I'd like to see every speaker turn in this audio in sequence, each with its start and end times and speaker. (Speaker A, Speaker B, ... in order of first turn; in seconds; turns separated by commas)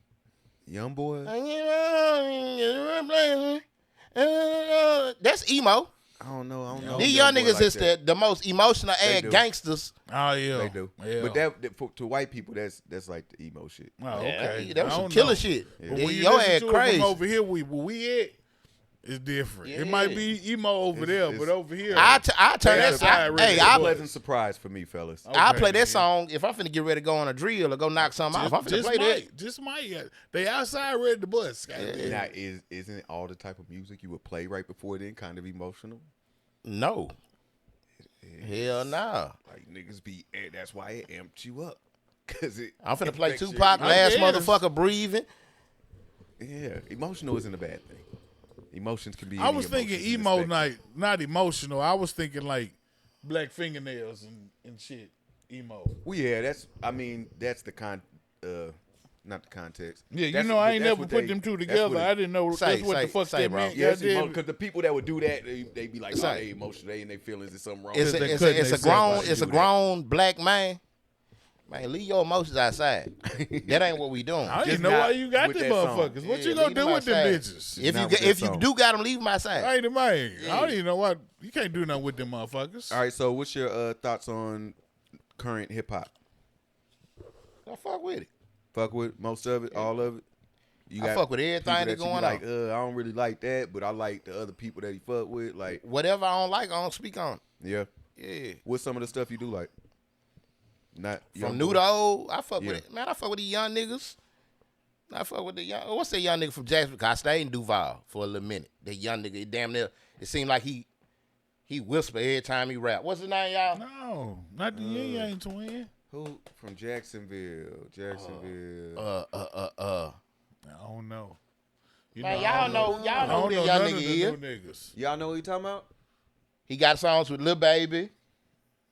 Speaker A: 0.7-1.3, Speaker B: 1.3-3.6, Speaker B: 4.2-5.9, Speaker A: 6.2-8.0, Speaker C: 6.7-7.2, Speaker B: 6.9-9.9, Speaker A: 9.0-9.5, Speaker C: 10.1-11.4, Speaker A: 10.5-14.0, Speaker C: 14.0-18.4, Speaker B: 14.1-17.2, Speaker A: 14.7-15.1, Speaker A: 15.8-16.1, Speaker C: 19.0-24.1, Speaker B: 19.6-20.3, Speaker A: 20.9-25.3, Speaker B: 21.9-23.9, Speaker C: 25.2-26.1, Speaker B: 25.3-29.2, Speaker C: 28.3-32.3, Speaker B: 31.7-32.2, Speaker A: 32.0-36.1, Speaker B: 36.6-37.1, Speaker A: 38.2-44.1, Speaker B: 38.4-39.4, Speaker B: 42.8-45.3, Speaker C: 43.8-44.6, Speaker A: 46.4-48.1, Speaker A: 48.7-50.7, Speaker C: 49.4-56.0, Speaker A: 56.0-62.1, Speaker C: 60.1-64.4, Speaker B: 62.5-63.8, Speaker A: 63.7-69.7, Speaker B: 66.1-66.5, Speaker C: 67.9-69.6, Speaker B: 68.0-70.8, Speaker B: 71.7-73.1, Speaker A: 73.3-73.9, Speaker B: 73.6-74.6, Speaker C: 74.5-77.8, Speaker A: 74.6-76.2, Speaker B: 76.2-79.7, Speaker A: 77.8-78.7, Speaker C: 79.5-83.0, Speaker B: 80.4-80.8, Speaker A: 82.9-84.8, Speaker A: 85.4-86.1, Speaker B: 87.7-88.3, Speaker A: 88.7-90.2, Speaker A: 90.9-95.8, Speaker B: 91.0-92.4, Speaker B: 95.7-97.4, Speaker A: 97.6-97.9, Speaker B: 98.2-98.6, Speaker A: 98.7-99.7, Speaker A: 101.0-101.8, Speaker B: 101.3-104.2, Speaker A: 102.6-102.8, Speaker B: 105.1-110.9, Speaker B: 111.7-113.8, Speaker C: 113.7-115.9, Speaker A: 114.7-115.3, Speaker A: 116.1-119.1, Speaker B: 118.1-120.2, Speaker C: 120.7-121.4, Speaker C: 122.1-124.9, Speaker B: 122.2-124.4, Speaker A: 122.3-123.5, Speaker A: 124.9-125.9, Speaker B: 126.7-128.1